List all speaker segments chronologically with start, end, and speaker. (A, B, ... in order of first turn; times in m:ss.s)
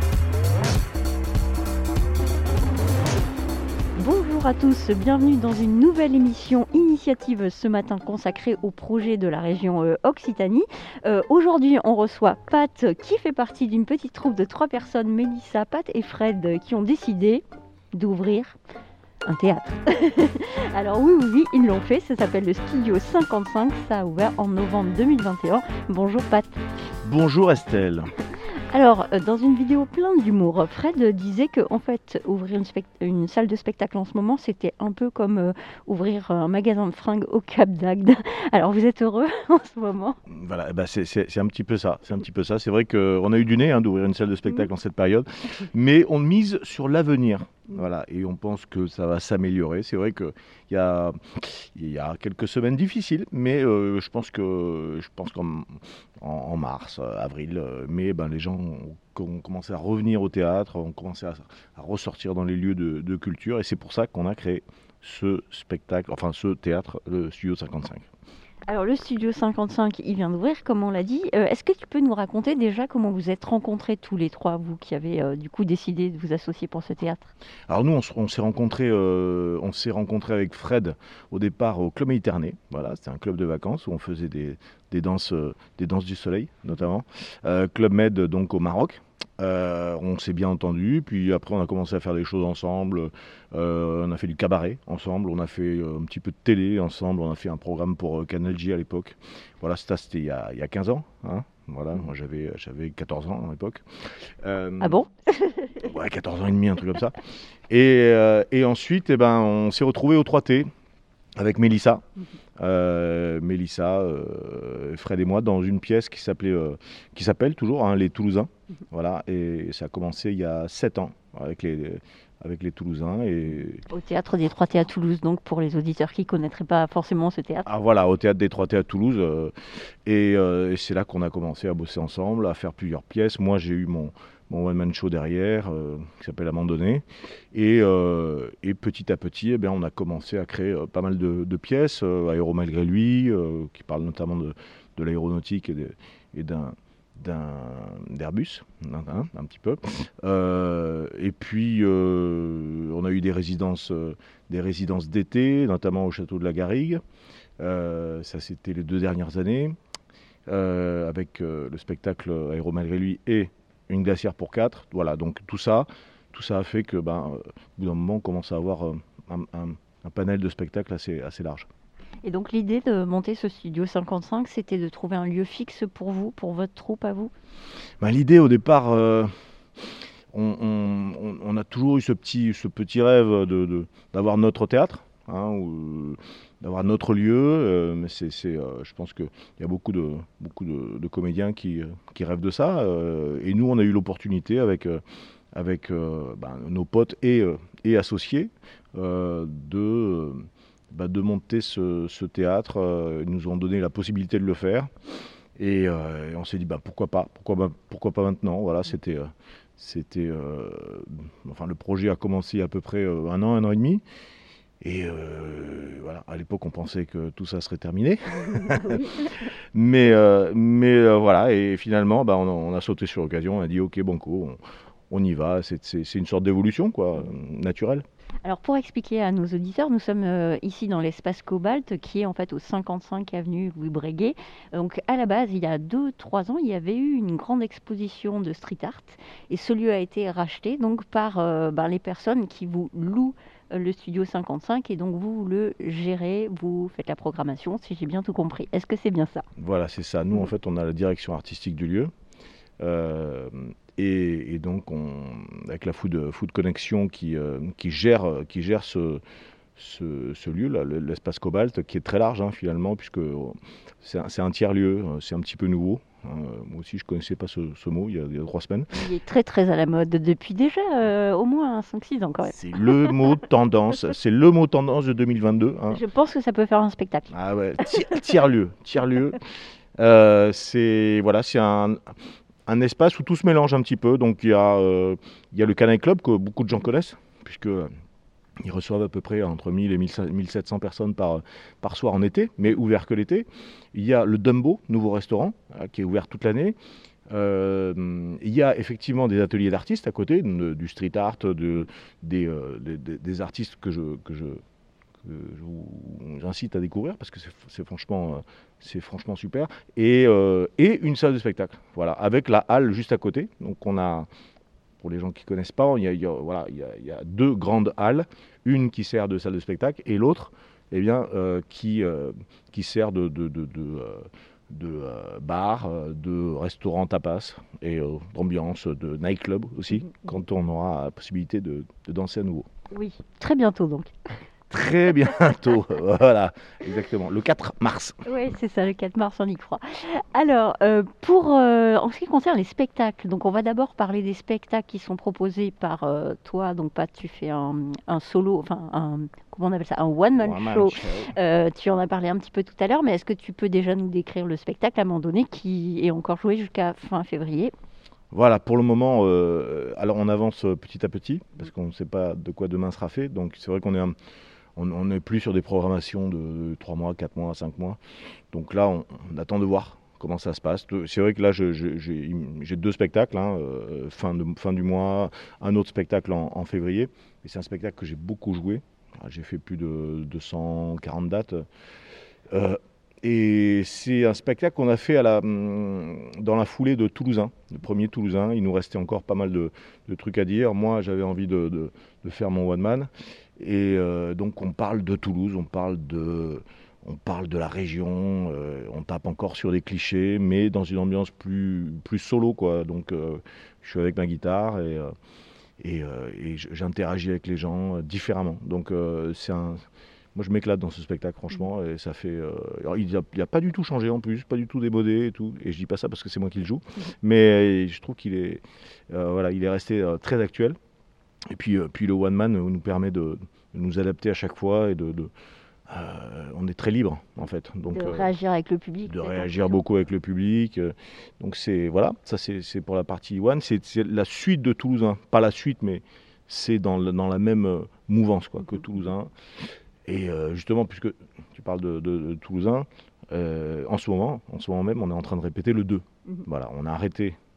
0:04.0-0:18.6 A
0:19.3-0:26.6 A
0:27.0-0:28.1 B
0:28.7-0:40.2 A
0:40.3-1:08.1 B
1:08.7-1:17.3 A
1:17.7-1:45.0 B
1:44.8-1:45.8 A
1:45.8-1:47.2 B
1:47.7-1:50.7 B
1:51.4-1:52.0 B
1:52.6-2:03.8 B
2:03.9-2:07.7 A
2:07.7-2:09.5 B
2:10.0-2:37.0 B
2:37.6-2:39.8 B
2:40.5-2:51.7 B
2:52.2-2:57.3 A
2:58.0-3:15.0 B
3:15.5-3:24.9 B
3:25.6-3:34.0 B
3:34.8-3:44.6 B
3:38.6-3:39.3 A
3:45.1-3:48.0 B
3:48.4-4:09.5 A
4:09.6-4:12.1 B
4:12.8-4:19.2 B
4:19.8-4:28.9 B
4:28.9-4:32.6 A
4:32.5-4:36.0 B
4:35.9-4:37.3 A
4:37.3-4:39.4 B
4:40.0-4:42.1 B
4:42.7-4:47.9 B
4:48.6-4:56.8 B
4:57.3-5:04.6 B
5:05.2-5:14.3 B
5:15.0-5:32.7 B
5:32.9-5:34.4 A
5:34.7-5:38.3 B
5:38.2-5:57.7 A
5:50.4-5:51.4 B
5:58.3-6:04.2 B
6:04.8-6:21.6 B
6:22.5-6:45.1 B
6:45.8-7:00.8 B
7:01.5-7:05.3 B
7:05.9-7:08.3 B
7:07.9-7:09.8 A
7:09.0-7:19.3 B
7:20.0-7:27.4 B